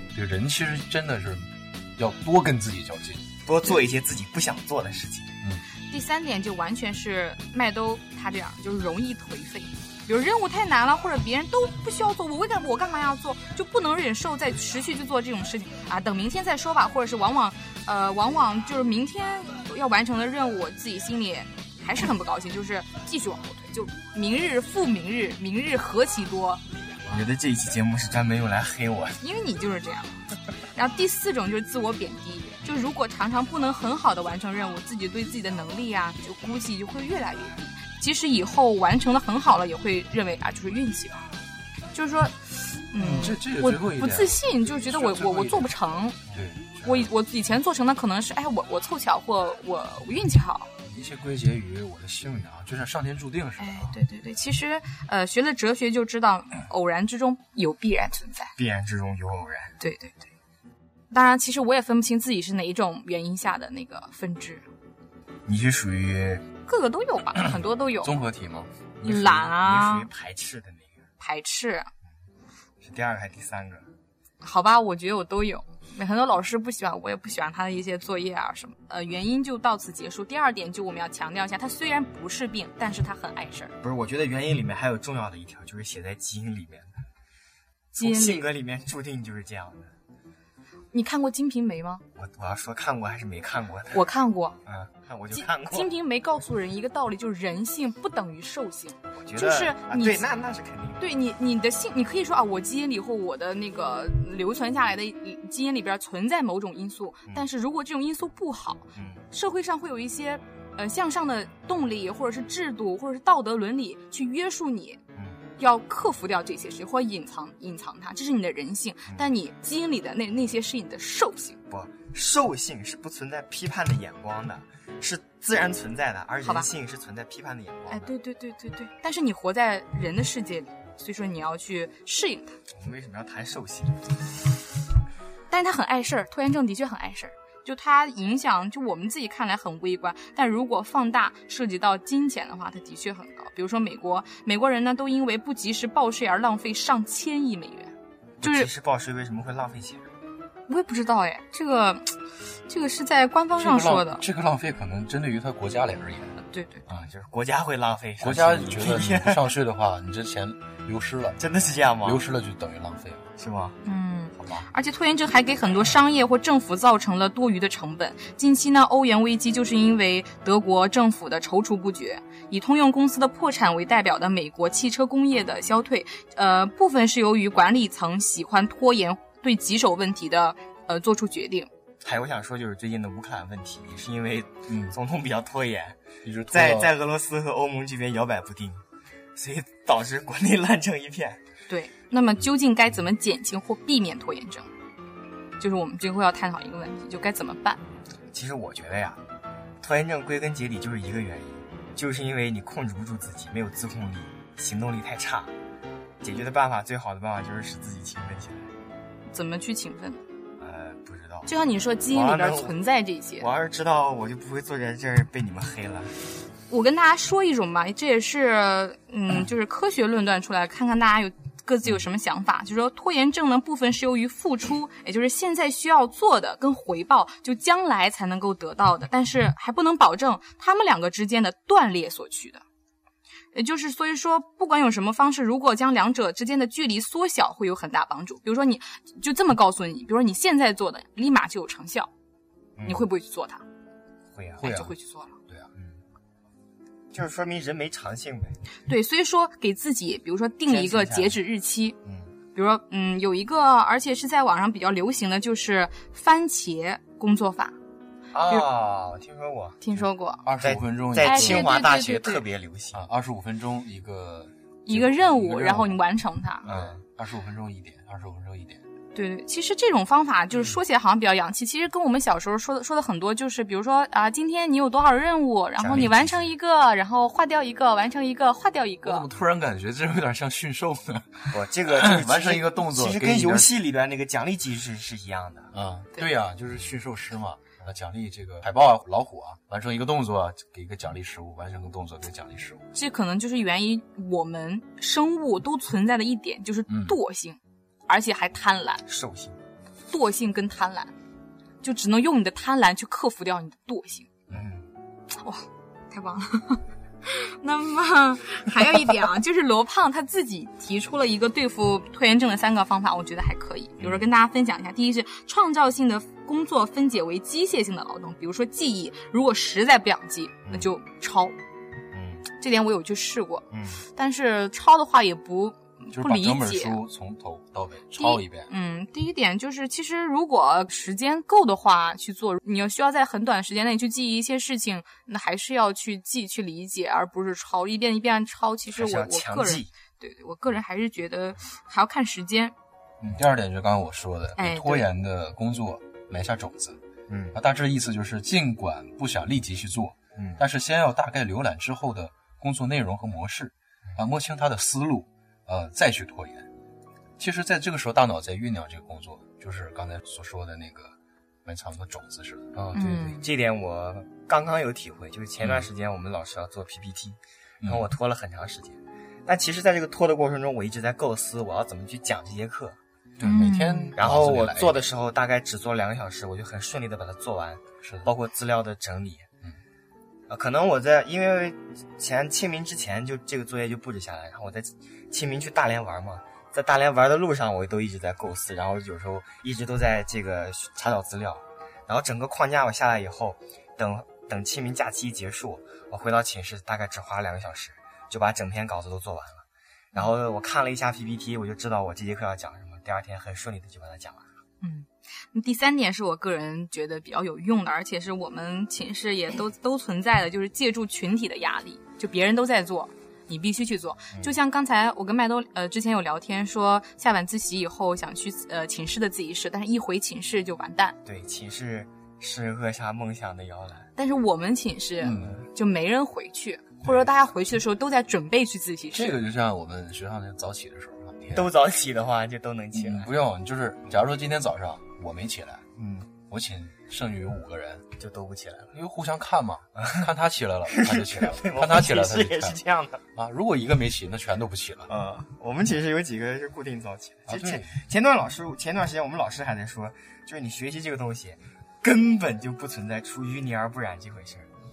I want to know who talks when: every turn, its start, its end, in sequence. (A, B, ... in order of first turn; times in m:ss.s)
0:00.1-0:03.3 A
0:03.5-0:05.3 B
0:05.9-0:26.6 C
0:27.1-0:29.2 B
0:29.2-0:30.2 C
0:30.8-0:41.2 C
0:41.9-0:46.2 C
0:43.0-0:47.1 A
0:46.8-0:50.7 C
0:50.8-0:54.0 A
0:53.6-0:58.5 C
0:58.6-0:59.8 B
0:59.8-1:00.2 C
1:01.1-1:04.6 C
1:05.5-1:06.4 B
1:06.7-1:08.1 C
1:08.0-1:08.9 A
1:09.0-1:11.0 B
1:09.0-1:10.1 C
1:11.2-1:11.9 C
1:12.8-1:13.9 B
1:14.4-1:23.8 C
1:23.8-1:27.0 B
1:27.9-1:29.9 B
1:28.0-1:28.5 C
1:30.9-1:32.0 C
1:32.2-1:34.0 B
1:33.9-1:34.6 C
1:34.6-1:35.9 B
1:35.3-1:40.2 C
1:39.1-1:41.1 B
1:41.0-1:55.0 C
1:49.0-1:49.2 B
1:55.6-2:01.6 C
2:01.7-2:08.1 B
2:07.9-2:12.6 C
2:12.7-2:14.0 B
2:15.5-2:28.7 C
2:28.4-2:30.1 B
2:30.7-2:34.2 C
2:33.6-2:36.4 A
2:36.4-2:36.9 C
2:36.9-2:39.4 B
2:38.2-2:41.4 A
2:41.4-2:42.2 B
2:42.0-2:43.3 A
2:43.4-2:43.8 B
2:43.8-3:01.7 C
3:02.0-3:06.0 B
3:04.7-3:05.0 A
3:06.2-3:06.9 A
3:06.5-3:08.8 B
3:09.4-3:11.4 B
3:11.7-3:14.7 C
3:15.6-3:17.8 C
3:18.3-3:19.2 B
3:19.8-3:25.5 B
3:26.2-3:28.7 B
3:29.3-3:30.2 C
3:30.6-3:31.5 B
3:31.5-3:33.5 C
3:32.1-3:32.8 B
3:33.4-3:36.1 B
3:36.7-3:52.6 C
3:53.5-4:02.1 C
4:02.8-4:03.1 B
4:02.8-4:03.6 C
4:04.3-4:04.8 B
4:04.6-4:05.4 C
4:04.6-4:04.9 A
4:05.8-4:06.0 B
4:07.1-4:08.6 B
4:08.9-4:12.0 C
4:10.7-4:11.4 B
4:12.0-4:12.3 B
4:12.5-4:17.8 C
4:18.3-4:19.9 B
4:19.8-4:20.5 C
4:20.4-4:21.8 A
4:20.6-4:23.0 B
4:21.2-4:22.4 C
4:22.9-4:26.0 A
4:24.9-4:26.7 C
4:26.6-4:28.8 A
4:26.6-4:27.0 B
4:29.1-4:39.3 C
4:35.8-4:36.5 B
4:39.0-4:43.7 A
4:41.5-4:45.7 B
4:45.7-4:52.8 A
4:52.9-4:59.0 C
4:56.9-4:57.2 A
4:59.1-4:59.6 B
5:00.1-5:01.1 C
5:01.8-5:04.3 C
5:04.5-5:04.9 B
5:05.4-5:21.6 C
5:14.0-5:14.3 B
5:22.1-5:22.5 B
5:22.6-5:27.0 C
5:23.7-5:24.0 B
5:26.1-5:28.7 A
5:28.2-5:42.7 C
5:38.9-5:39.9 B
5:43.3-5:47.0 A
5:44.6-5:45.1 C
5:47.3-5:47.6 B
5:47.5-5:56.7 A
5:50.4-5:50.6 B
5:57.4-6:02.7 A
6:02.8-6:13.0 B
6:03.0-6:03.5 C
6:05.6-6:05.9 A
6:07.8-6:08.1 A
6:13.4-6:15.0 A
6:13.4-6:14.2 C
6:14.2-6:19.5 B
6:18.0-6:18.3 A
6:20.5-6:44.4 B
6:44.8-7:01.2 C
7:01.2-7:04.1 B
7:04.2-7:09.4 C
7:05.2-7:05.6 A
7:09.1-7:11.7 A
7:11.5-7:13.3 B
7:12.9-7:15.8 A
7:16.0-7:16.3 B
7:16.5-7:18.0 A
7:18.2-7:18.9 B
7:18.9-7:22.8 A
7:20.9-7:23.2 B
7:23.4-7:25.1 A
7:25.1-7:34.7 B
7:27.5-7:27.9 A